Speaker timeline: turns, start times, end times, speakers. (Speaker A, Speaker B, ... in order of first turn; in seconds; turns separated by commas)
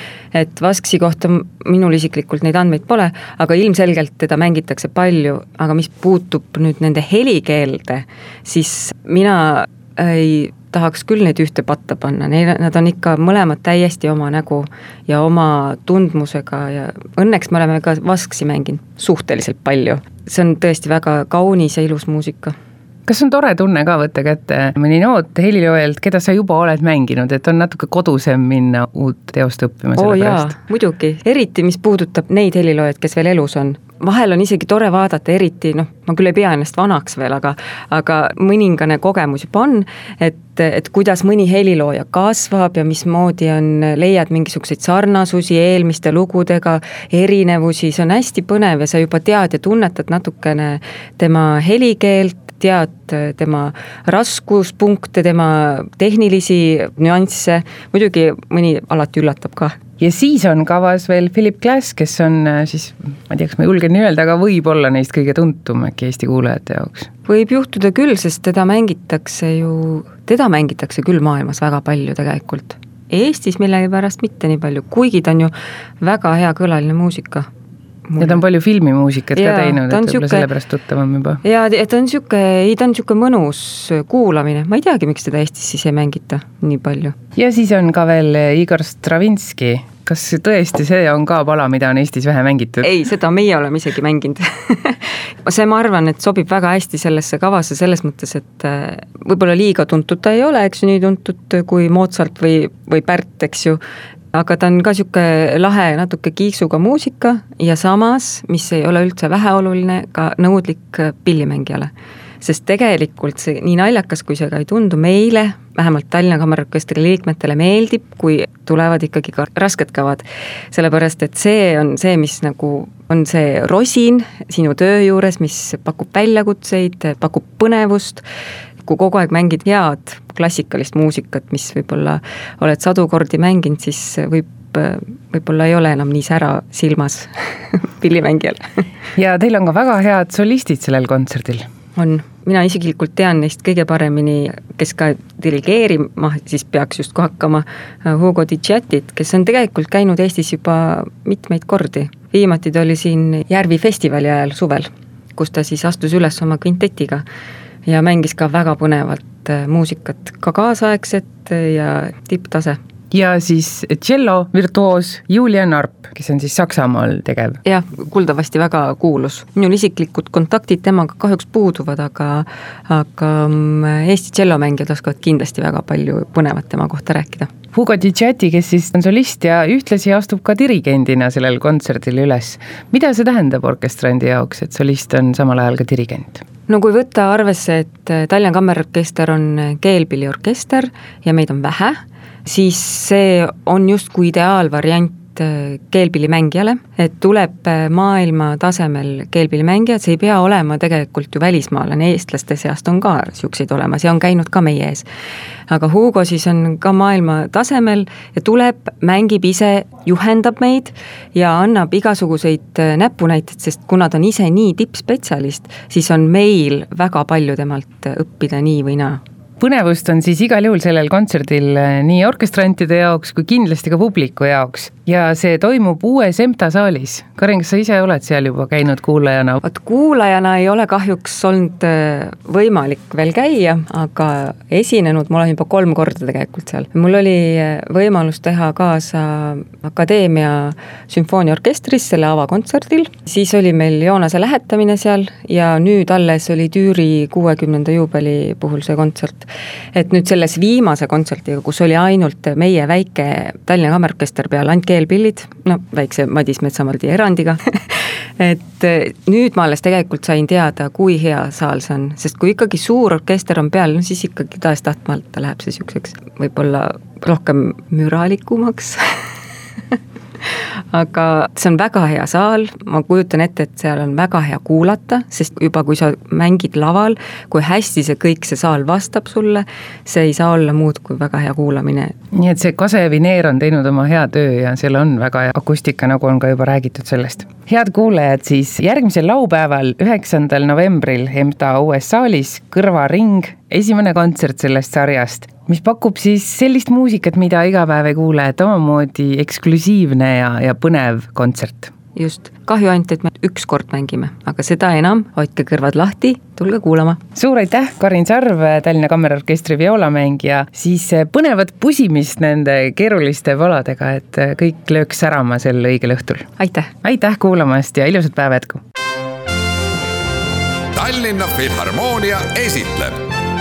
Speaker A: 0.3-22.5, Speaker B: 23.1-30.5, Speaker A: 29.9-59.8, Speaker B: 60.0-67.1, Speaker A: 67.2-77.5, Speaker A: 78.1-78.4, Speaker B: 78.2-81.4, Speaker A: 79.3-80.5, Speaker A: 81.4-87.1, Speaker B: 87.3-93.0, Speaker A: 92.8-103.8, Speaker A: 104.3-128.2, Speaker A: 128.8-138.8, Speaker B: 139.2-141.7, Speaker A: 141.9-157.2, Speaker A: 157.8-162.8, Speaker B: 163.1-167.6, Speaker A: 167.6-177.5, Speaker B: 177.7-186.4, Speaker A: 186.7-205.1, Speaker A: 205.7-219.2, Speaker B: 219.6-229.6, Speaker A: 229.6-269.2, Speaker A: 269.9-282.1, Speaker B: 282.3-301.9, Speaker A: 302.1-307.2, Speaker B: 307.4-316.5, Speaker A: 316.6-316.9, Speaker B: 317.0-318.8, Speaker C: 320.9-323.2